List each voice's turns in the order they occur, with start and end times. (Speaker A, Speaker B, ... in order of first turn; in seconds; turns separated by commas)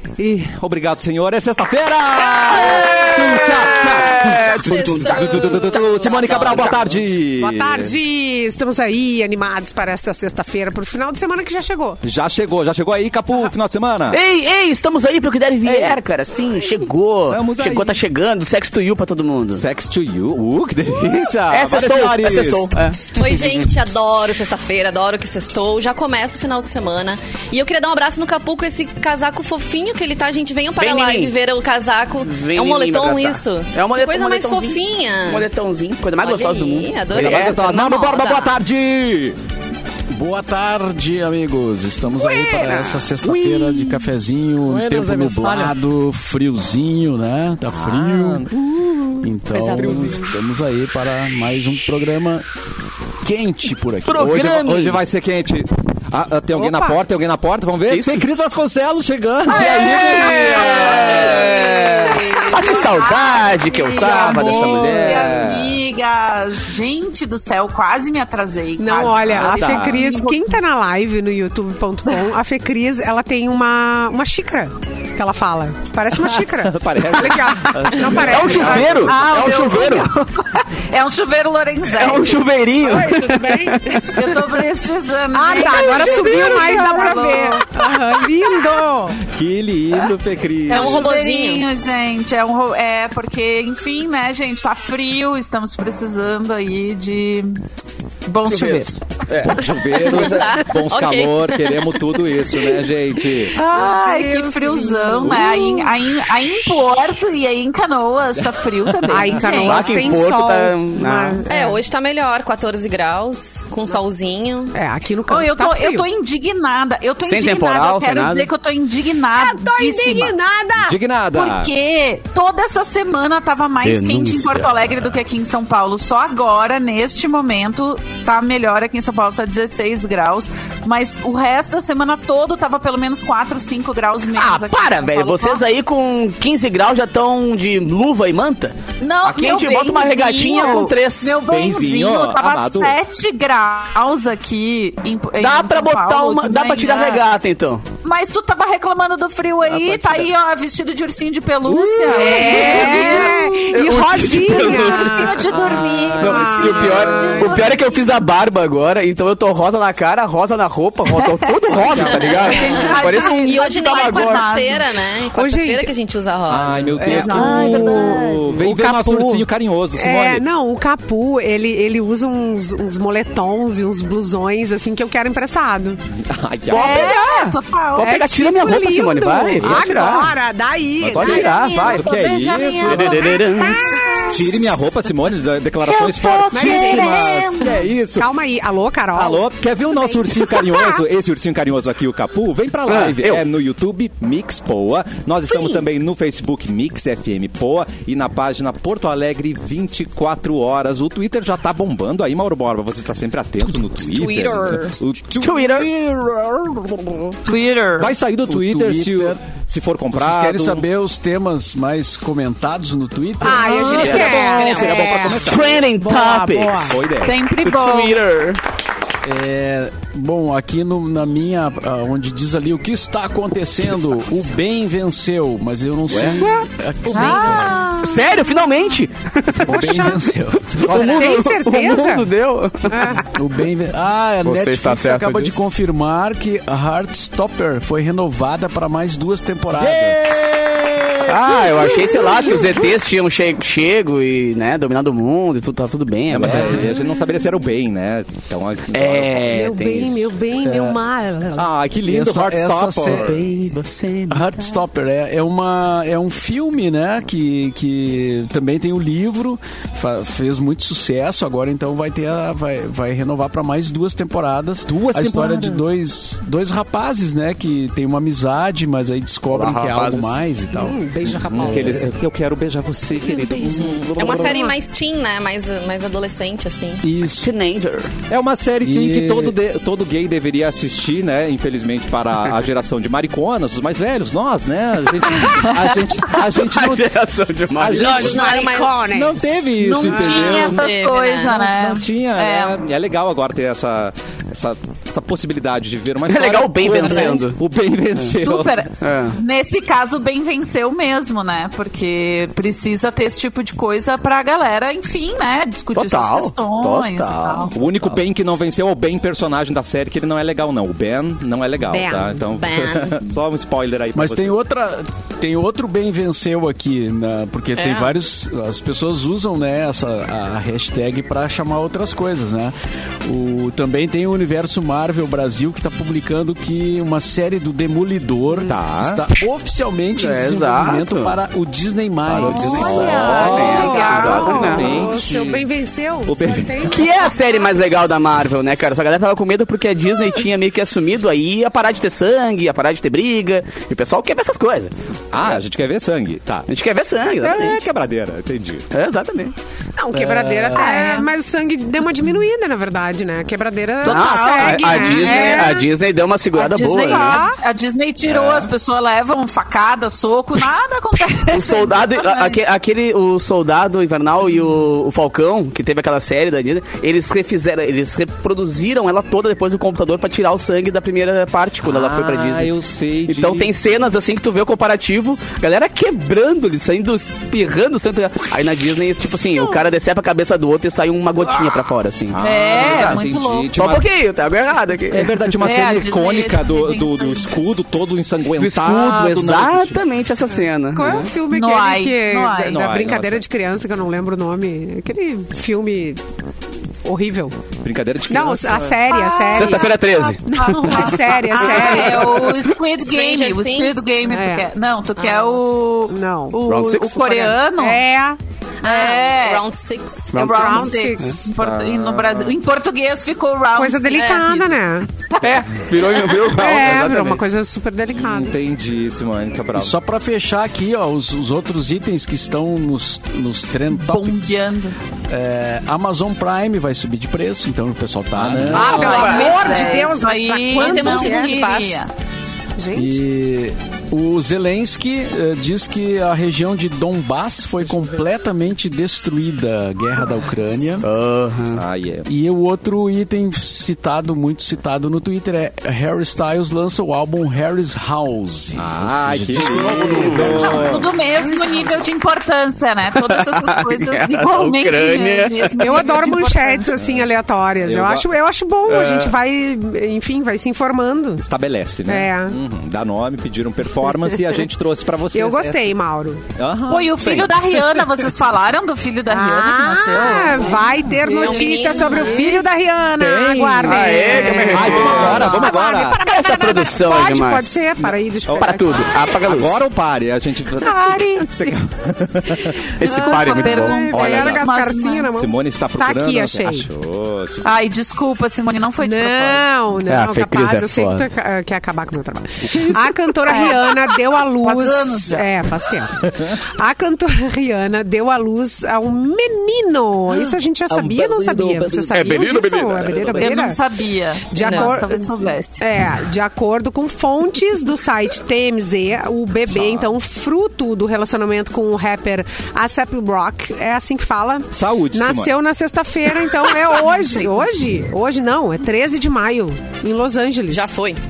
Speaker A: 0.2-7.9, Speaker B: 2.6-5.6, Speaker C: 4.0-6.9, Speaker B: 6.3-6.8, Speaker D: 7.4-12.0, Speaker A: 12.0-14.2, Speaker B: 14.1-19.6, Speaker A: 15.6-16.0, Speaker A: 17.3-18.0, Speaker A: 19.5-22.8, Speaker B: 21.5-23.7, Speaker C: 23.1-35.5, Speaker B: 30.8-31.4, Speaker B: 32.2-37.7, Speaker C: 36.2-38.5, Speaker A: 37.1-39.4, Speaker E: 40.1-48.5, Speaker D: 42.1-44.0, Speaker A: 47.7-48.7, Speaker D: 48.8-50.3, Speaker E: 49.2-52.4, Speaker E: 53.2-54.5, Speaker B: 54.0-55.0, Speaker A: 54.3-61.6, Speaker D: 56.5-57.0, Speaker B: 57.9-58.2, Speaker F: 59.5-70.6, Speaker B: 59.5-65.7, Speaker D: 62.3-62.6, Speaker A: 64.4-65.8, Speaker D: 68.8-79.2, Speaker A: 69.3-70.0, Speaker A: 76.1-79.2, Speaker B: 78.2-80.1, Speaker F: 78.8-82.4, Speaker B: 81.9-84.2, Speaker D: 82.8-84.0, Speaker F: 84.1-88.8, Speaker D: 85.3-89.2, Speaker B: 85.8-86.4, Speaker A: 89.3-91.2, Speaker F: 90.7-97.6, Speaker C: 90.7-91.7, Speaker F: 98.2-99.0, Speaker B: 98.5-100.6, Speaker A: 99.4-103.5, Speaker C: 100.0-102.8, Speaker F: 103.5-110.2, Speaker D: 103.5-106.0, Speaker A: 109.1-109.4, Speaker D: 109.1-111.8, Speaker B: 109.6-111.5, Speaker C: 111.5-114.7, Speaker D: 114.7-116.0, Speaker F: 115.3-120.3, Speaker B: 117.2-118.5, Speaker D: 119.3-121.0, Speaker A: 120.8-121.7, Speaker F: 121.3-135.6, Speaker B: 123.8-124.9, Speaker B: 134.3-141.4, Speaker F: 139.0-147.2, Speaker A: 141.4-143.0, Speaker B: 145.4-147.8, Speaker F: 148.0-153.7, Speaker B: 149.6-150.3, Speaker B: 151.7-164.5, Speaker D: 152.1-157.6, Speaker F: 154.2-158.2, Speaker F: 161.2-164.9, Speaker A: 161.8-162.2, Speaker C: 162.1-167.1, Speaker D: 162.2-163.3, Speaker D: 165.3-165.9, Speaker A: 166.5-170.4, Speaker D: 167.0-169.4, Speaker F: 167.0-168.4, Speaker D: 170.0-176.0, Speaker A: 176.2-177.2, Speaker F: 176.7-178.1, Speaker D: 176.7-181.5, Speaker B: 177.9-180.3, Speaker A: 179.6-179.9, Speaker A: 181.0-183.3, Speaker B: 181.1-182.1, Speaker F: 181.1-184.8, Speaker B: 182.8-184.0, Speaker D: 183.6-184.6, Speaker A: 184.3-188.3, Speaker F: 185.8-187.8, Speaker D: 186.5-191.0, Speaker A: 189.1-207.4, Speaker B: 192.9-193.4, Speaker C: 204.1-205.0, Speaker B: 205.4-205.9, Speaker F: 207.4-208.1, Speaker A: 208.0-210.8, Speaker E: 208.5-209.4, Speaker E: 210.1-213.9, Speaker D: 213.4-217.0, Speaker B: 213.6-217.0, Speaker A: 213.7-215.8, Speaker C: 214.1-215.4, Speaker A: 216.9-217.4, Speaker F: 217.2-218.2, Speaker B: 217.6-218.6, Speaker E: 219.2-227.8, Speaker A: 226.1-226.6, Speaker F: 227.1-228.3, Speaker B: 227.1-229.9, Speaker D: 227.3-228.0, Speaker E: 229.5-231.2, Speaker D: 229.6-230.3, Speaker B: 230.7-233.0, Speaker D: 230.8-232.3, Speaker D: 232.9-233.3, Speaker E: 233.1-240.2, Speaker B: 234.4-235.6, Speaker A: 239.8-242.2, Speaker B: 241.2-246.9, Speaker A: 246.3-249.5, Speaker E: 246.4-246.8, Speaker B: 248.9-250.3, Speaker D: 249.4-251.7, Speaker E: 250.6-250.9, Speaker A: 251.5-253.4, Speaker E: 252.0-253.3, Speaker B: 253.1-254.8, Speaker E: 254.3-272.0, Speaker A: 264.9-265.9, Speaker B: 269.5-270.4, Speaker D: 270.7-272.1, Speaker A: 271.3-274.3, Speaker D: 273.3-274.7, Speaker C: 273.7-277.0, Speaker B: 273.9-274.7, Speaker E: 277.0-277.5, Speaker B: 277.4-278.1, Speaker A: 278.3-287.1, Speaker E: 278.8-279.5, Speaker B: 285.4-288.3, Speaker A: 287.7-291.0, Speaker D: 288.0-290.7, Speaker C: 288.0-289.0, Speaker F: 289.8-292.8, Speaker C: 290.6-291.6, Speaker A: 291.6-298.8, Speaker B: 296.3-297.6, Speaker C: 296.9-297.4, Speaker F: 298.4-307.7, Speaker B: 299.0-299.4, Speaker B: 305.9-308.1, Speaker A: 307.7-314.6, Speaker D: 311.9-312.4, Speaker C: 312.5-313.2, Speaker E: 314.1-333.2, Speaker C: 317.7-318.1, Speaker D: 328.5-328.8, Speaker A: 328.7-329.2, Speaker B: 330.1-331.4, Speaker B: 332.3-335.0, Speaker A: 332.4-335.7, Speaker D: 332.4-337.5, Speaker F: 333.4-334.9, Speaker A: 336.2-336.9, Speaker B: 336.8-344.9, Speaker A: 345.3-346.7, Speaker B: 346.7-347.8, Speaker A: 347.4-348.9, Speaker B: 348.9-349.5, Speaker D: 350.0-355.9, Speaker E: 350.1-350.9, Speaker B: 350.8-351.2, Speaker F: 354.0-355.9, Speaker B: 354.0-357.5, Speaker F: 356.5-362.6, Speaker D: 357.0-357.6, Speaker A: 358.3-358.7, Speaker B: 361.5-372.7, Speaker A: 371.8-373.8, Speaker B: 373.3-383.2, Speaker A: 382.3-384.1, Speaker F: 382.4-383.7, Speaker B: 383.7-385.5, Speaker A: 385.1-390.0, Speaker F: 385.6-387.5, Speaker B: 388.6-391.3, Speaker D: 390.6-396.2, Speaker F: 391.5-392.8, Speaker A: 392.6-393.4, Speaker D: 397.0-397.6, Speaker A: 397.8-399.0, Speaker D: 398.3-402.5, Speaker F: 399.1-408.0, Speaker B: 399.5-401.2, Speaker B: 401.8-402.7, Speaker C: 403.0-404.0, Speaker D: 404.2-404.7, Speaker C: 405.2-405.6, Speaker D: 406.1-406.6, Speaker B: 406.6-407.6, Speaker D: 407.7-408.4, Speaker C: 408.8-410.4, Speaker F: 408.8-409.6, Speaker B: 410.3-411.3, Speaker F: 410.3-415.5, Speaker D: 410.5-411.5, Speaker A: 411.5-412.6, Speaker D: 413.8-415.1, Speaker C: 414.1-414.5, Speaker B: 415.4-417.4, Speaker F: 416.0-416.3, Speaker D: 416.5-418.5, Speaker A: 418.1-419.9, Speaker E: 419.7-424.6, Speaker F: 423.9-424.9, Speaker E: 425.3-428.9, Speaker A: 428.3-429.3, Speaker D: 428.7-431.6, Speaker B: 428.8-429.7, Speaker F: 428.8-432.1, Speaker C: 429.6-430.2, Speaker C: 430.7-432.0, Speaker D: 432.8-433.2, Speaker E: 432.9-441.1, Speaker B: 441.0-441.8, Speaker A: 441.7-442.3, Speaker E: 442.2-450.9, Speaker A: 448.8-451.1, Speaker B: 450.1-450.7, Speaker F: 450.4-457.0, Speaker D: 451.3-452.0, Speaker B: 453.3-456.0, Speaker D: 455.8-461.4, Speaker A: 457.0-457.3, Speaker A: 457.8-458.3, Speaker B: 458.9-459.3, Speaker A: 461.4-465.9, Speaker D: 462.1-462.6, Speaker D: 465.3-466.4, Speaker A: 466.6-467.3, Speaker F: 466.9-472.7, Speaker B: 467.2-467.6, Speaker D: 469.2-479.2, Speaker C: 471.3-472.5, Speaker A: 473.2-476.2, Speaker B: 473.8-477.7, Speaker F: 475.0-475.7, Speaker A: 478.5-478.8, Speaker B: 478.5-479.8, Speaker A: 479.4-482.9, Speaker F: 480.8-481.6, Speaker B: 483.0-484.1, Speaker F: 483.0-485.3, Speaker D: 483.0-486.9, Speaker A: 484.1-484.7, Speaker A: 485.3-487.7, Speaker F: 487.6-489.6, Speaker D: 489.0-503.8, Speaker B: 490.1-491.2, Speaker A: 492.6-493.1, Speaker F: 493.4-495.5, Speaker B: 500.9-503.5, Speaker F: 503.3-505.8, Speaker D: 504.5-520.9, Speaker C: 504.6-504.9, Speaker A: 509.7-510.1, Speaker A: 514.7-515.5, Speaker F: 517.1-517.6, Speaker C: 520.7-521.2